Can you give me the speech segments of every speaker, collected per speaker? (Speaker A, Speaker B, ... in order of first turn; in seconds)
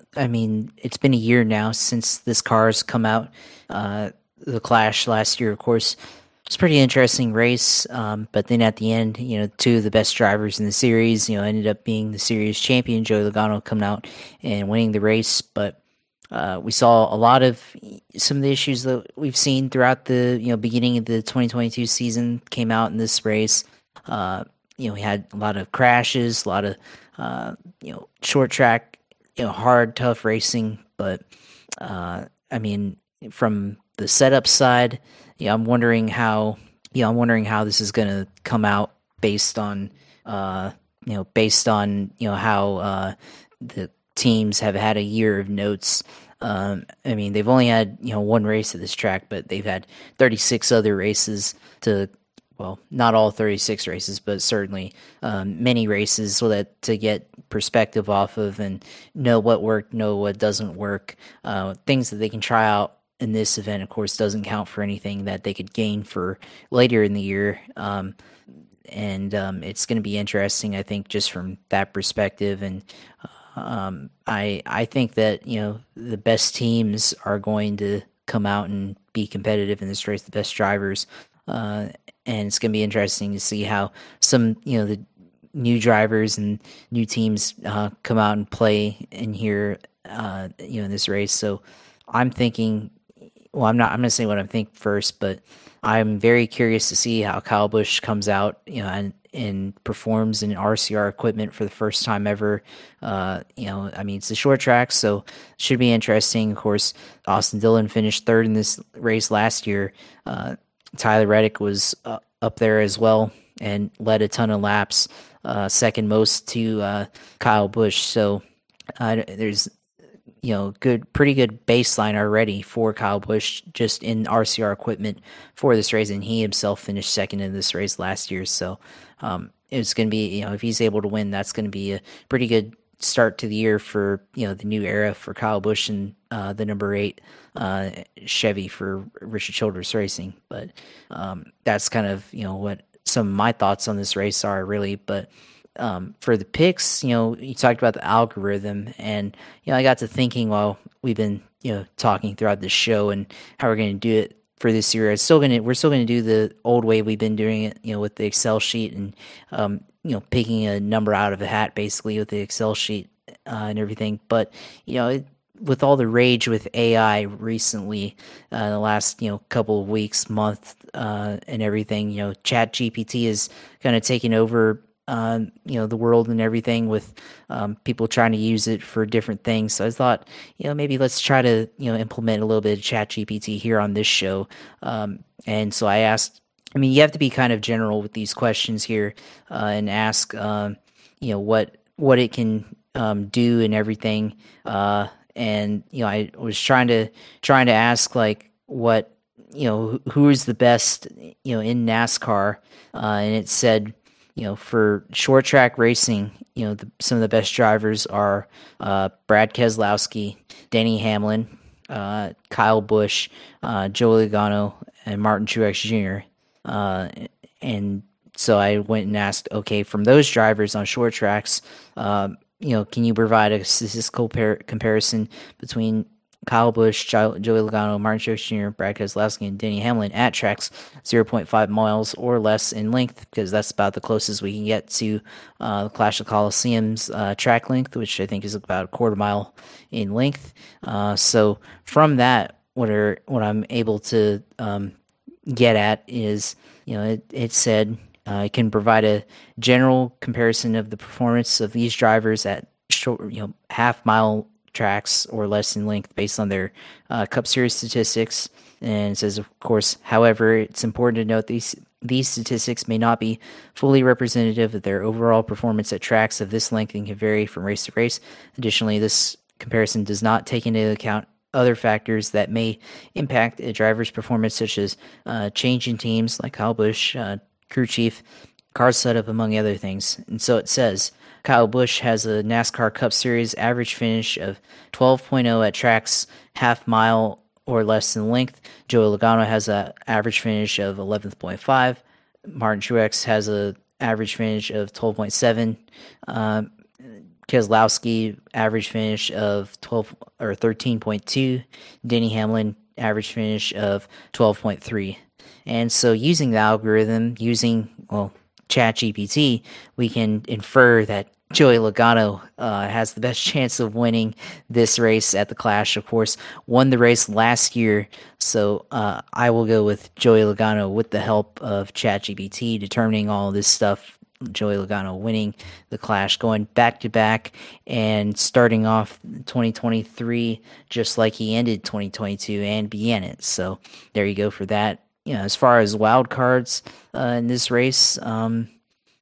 Speaker A: 0.2-15.8, 16.3-31.2, 31.8-68.1, 68.9-72.8, 73.5-85.0, 85.5-92.9, 93.5-118.4, 119.0-119.7, 120.4-244.9, 245.5-278.2, 278.7-296.7, 297.5-338.7